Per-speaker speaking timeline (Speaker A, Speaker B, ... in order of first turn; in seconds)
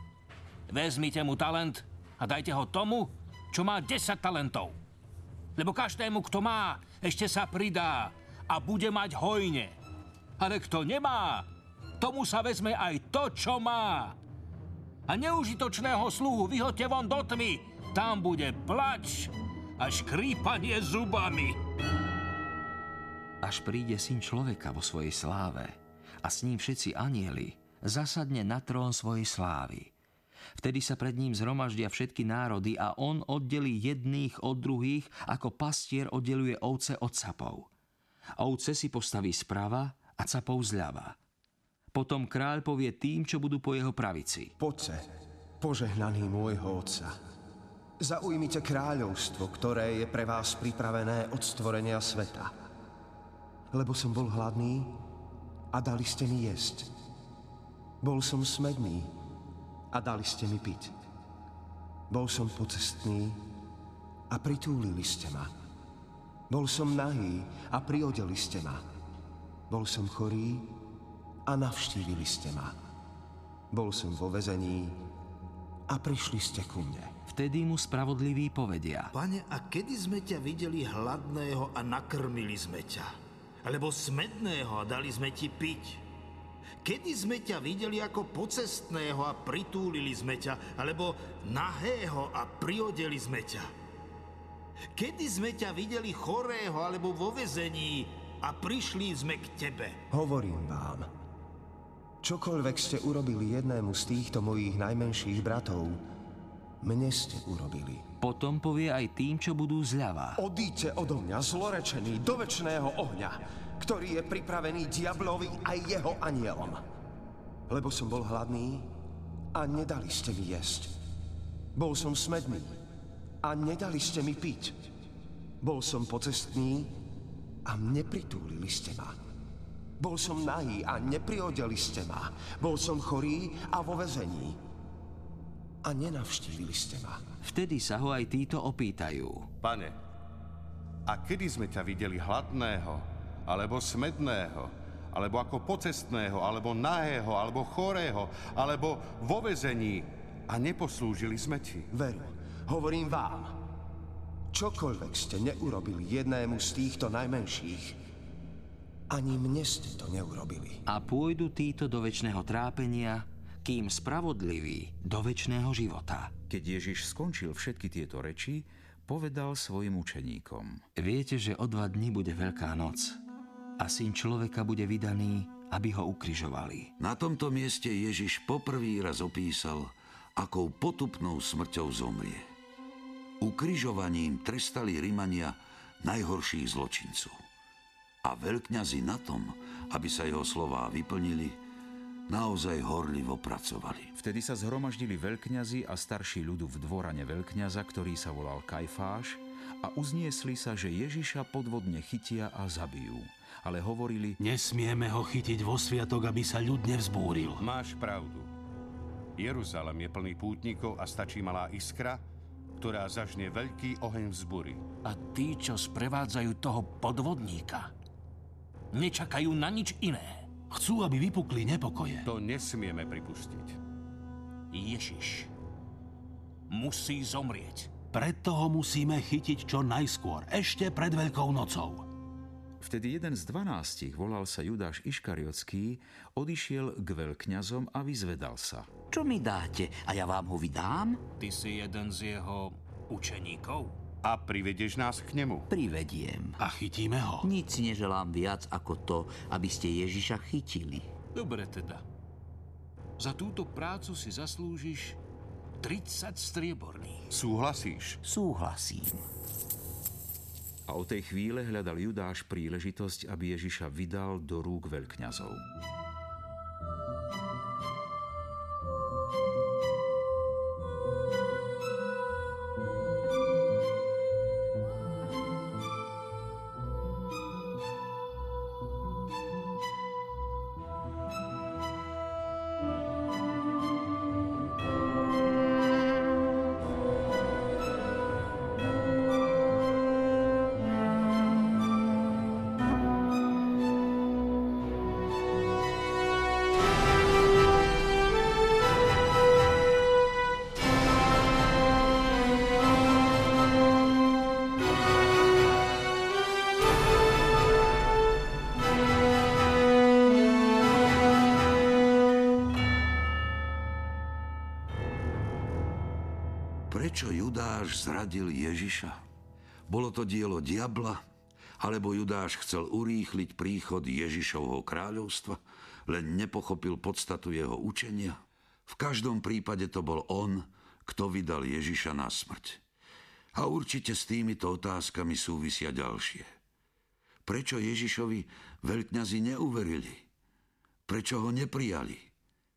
Speaker A: 0.7-4.8, 5.5-9.8, 10.4-11.5, 12.0-14.2, 15.1-21.6, 215.0-217.9, 218.9-220.5, 224.7-225.5, 226.7-227.9, 241.4-243.9, 251.3-252.0, 253.2-255.2, 255.8-257.3
Speaker B: 23.4-29.9, 30.6-37.7, 38.4-41.2, 41.9-44.5, 77.3-79.1, 108.2-110.4, 137.4-139.5, 160.9-166.3, 171.0-173.2, 173.8-176.9
Speaker C: 44.6-45.1, 45.6-47.1, 48.0-52.5, 53.7-55.0, 55.7-56.9, 58.0-59.1, 59.9-60.9, 62.1-63.4, 64.3-65.5, 66.5-68.8, 69.7-70.7, 71.5-72.8, 73.7-75.0, 75.9-77.1, 100.1-101.1, 102.2-106.0, 106.8-108.0, 110.4-116.8, 117.7-118.9, 119.5-120.9, 121.7-122.8, 123.4-124.8, 125.6-127.0, 127.7-129.2, 130.0-134.6, 135.8-137.2, 151.9-153.6, 154.5-158.0, 159.1-160.8
Speaker D: 79.1-83.1, 83.6-86.0, 86.8-93.7, 94.9-100.0
Speaker E: 139.6-139.9, 141.1-151.9, 207.6-208.5, 209.4-212.2, 212.8-214.8, 222.2-223.8, 244.2-245.7, 257.3-258.2
Speaker F: 166.5-170.8, 194.2-204.4, 232.8-238.9, 260.9-265.6
Speaker G: 177.0-182.5, 183.4-187.4, 188.2-191.6, 192.3-194.1, 316.9-319.2, 319.9-321.2, 321.8-332.8, 333.5-336.5, 337.4-340.2, 341.1-342.3
Speaker H: 204.4-207.6, 220.7-222.2, 228.1-232.1, 246.6-247.4
Speaker I: 239.1-241.2, 245.7-246.6, 247.4-251.1, 258.2-259.2